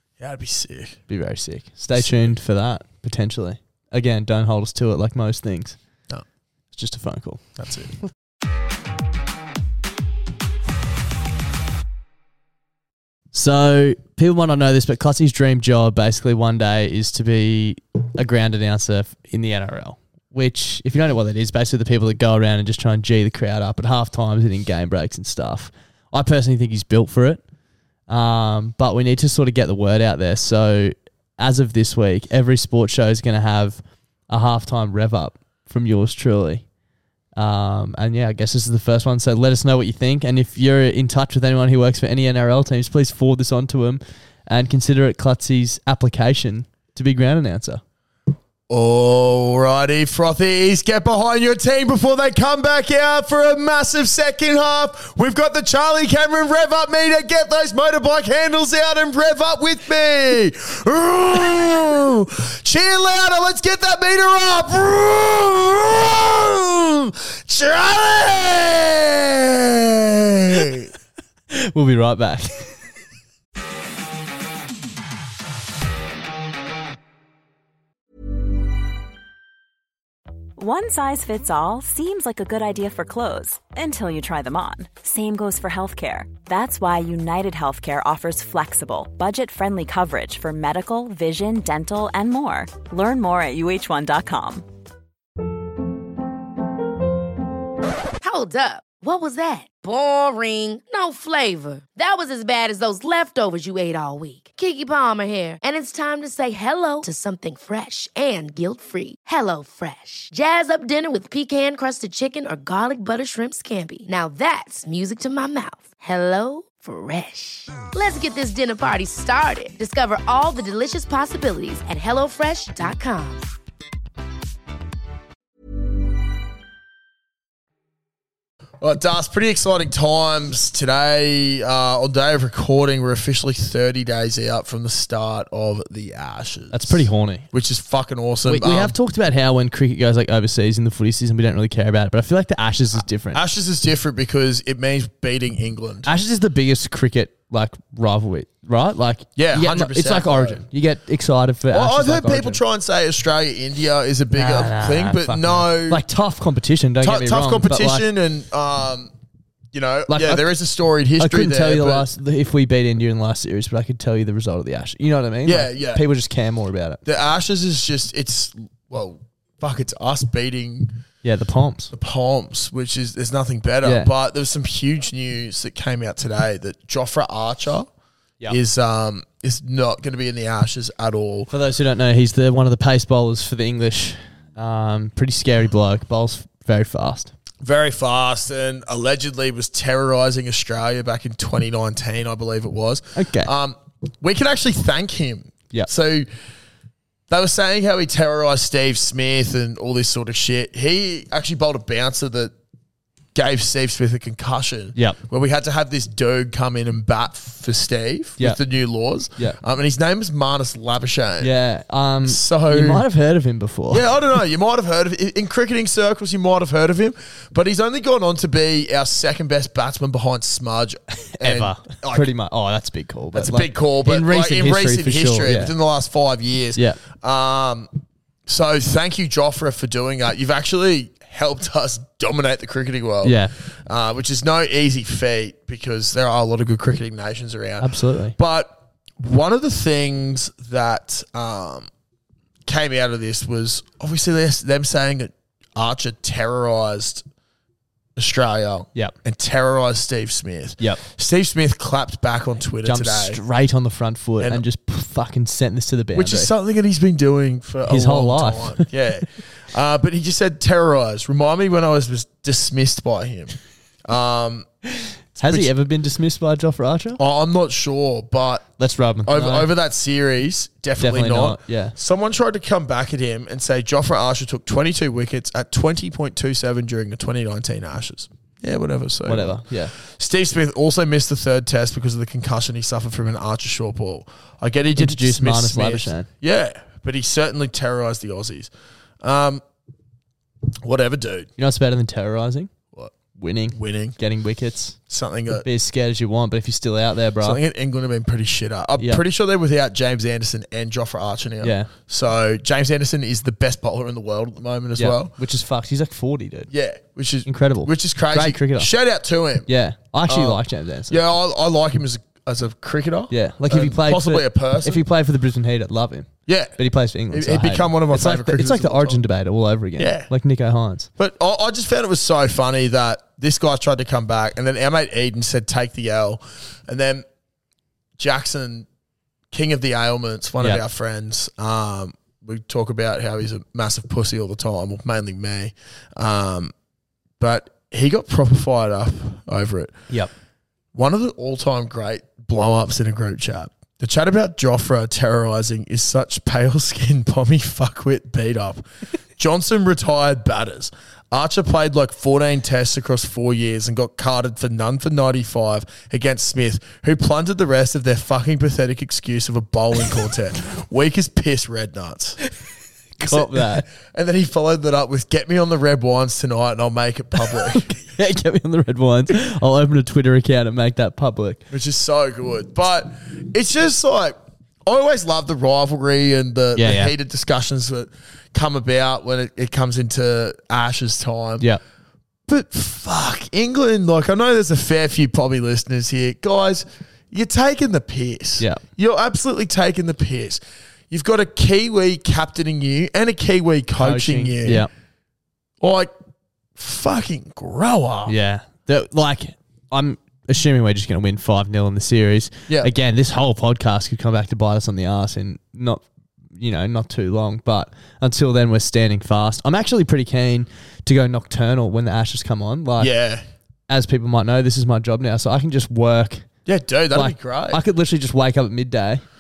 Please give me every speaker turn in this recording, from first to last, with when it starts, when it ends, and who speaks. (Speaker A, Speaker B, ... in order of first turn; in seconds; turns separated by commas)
Speaker A: 0.2-1.0, Speaker B: 1.1-5.8, Speaker A: 1.9-2.3, Speaker B: 6.7-7.4, Speaker A: 7.6-7.9, Speaker B: 13.3-27.4, Speaker B: 28.1-36.6, Speaker B: 37.4-47.8, Speaker A: 48.7-70.9, Speaker B: 71.5-72.6, Speaker C: 80.6-94.7, Speaker D: 98.2-123.5, Speaker A: 128.8-139.0, Speaker B: 136.7-137.5, Speaker B: 138.5-143.4, Speaker A: 143.3-146.1, Speaker B: 146.1-152.6, Speaker A: 149.4-150.6, Speaker A: 151.7-156.0, Speaker B: 154.3-158.1, Speaker A: 157.0-159.1, Speaker A: 159.7-162.1, Speaker B: 160.1-160.4, Speaker B: 161.2-167.0, Speaker A: 165.4-166.1, Speaker A: 167.1-170.9, Speaker B: 171.2-171.9, Speaker A: 171.9-177.9, Speaker B: 173.8-174.1, Speaker A: 178.5-181.5, Speaker B: 181.5-187.3, Speaker A: 187.6-196.3, Speaker B: 193.2-193.5, Speaker A: 197.3-202.5, Speaker A: 203.3-211.5, Speaker B: 211.4-214.1, Speaker A: 212.2-213.0, Speaker A: 213.9-222.3, Speaker B: 221.4-225.7, Speaker A: 223.3-227.9, Speaker A: 228.5-241.9, Speaker B: 233.2-233.5, Speaker B: 237.8-238.4, Speaker A: 242.7-247.2, Speaker A: 248.2-253.4, Speaker B: 252.8-256.5, Speaker A: 256.1-264.7, Speaker B: 257.9-258.9, Speaker B: 265.4-267.2, Speaker A: 265.4-265.7, Speaker A: 267.2-268.7, Speaker B: 268.8-269.7, Speaker A: 269.2-288.7, Speaker B: 271.0-271.9, Speaker B: 279.2-279.9, Speaker B: 285.0-286.3, Speaker A: 289.2-289.6, Speaker A: 290.8-291.5, Speaker B: 291.6-292.7, Speaker B: 293.3-295.0, Speaker A: 293.7-294.2, Speaker A: 295.1-295.7, Speaker B: 295.6-297.6, Speaker A: 297.4-305.3, Speaker B: 301.6-301.9, Speaker B: 305.0-306.7, Speaker A: 306.7-309.7, Speaker B: 307.5-308.9, Speaker B: 309.7-311.2, Speaker A: 310.3-315.0, Speaker B: 313.3-321.1, Speaker A: 316.5-316.8, Speaker A: 317.3-319.2, Speaker A: 320.0-320.3, Speaker A: 321.2-327.2, Speaker A: 328.2-328.9, Speaker A: 329.5-336.7, Speaker A: 337.4-339.9, Speaker A: 340.9-348.9, Speaker A: 349.4-362.4, Speaker B: 363.2-363.9, Speaker A: 363.2-368.0, Speaker B: 367.9-371.6, Speaker A: 371.7-381.7, Speaker B: 376.8-377.1, Speaker A: 382.5-394.9, Speaker B: 394.0-394.9, Speaker A: 395.8-396.1, Speaker A: 396.8-398.4, Speaker B: 398.2-406.0, Speaker B: 406.6-413.1, Speaker A: 413.0-413.4, Speaker B: 413.9-416.5, Speaker A: 416.7-417.8, Speaker B: 417.1-419.2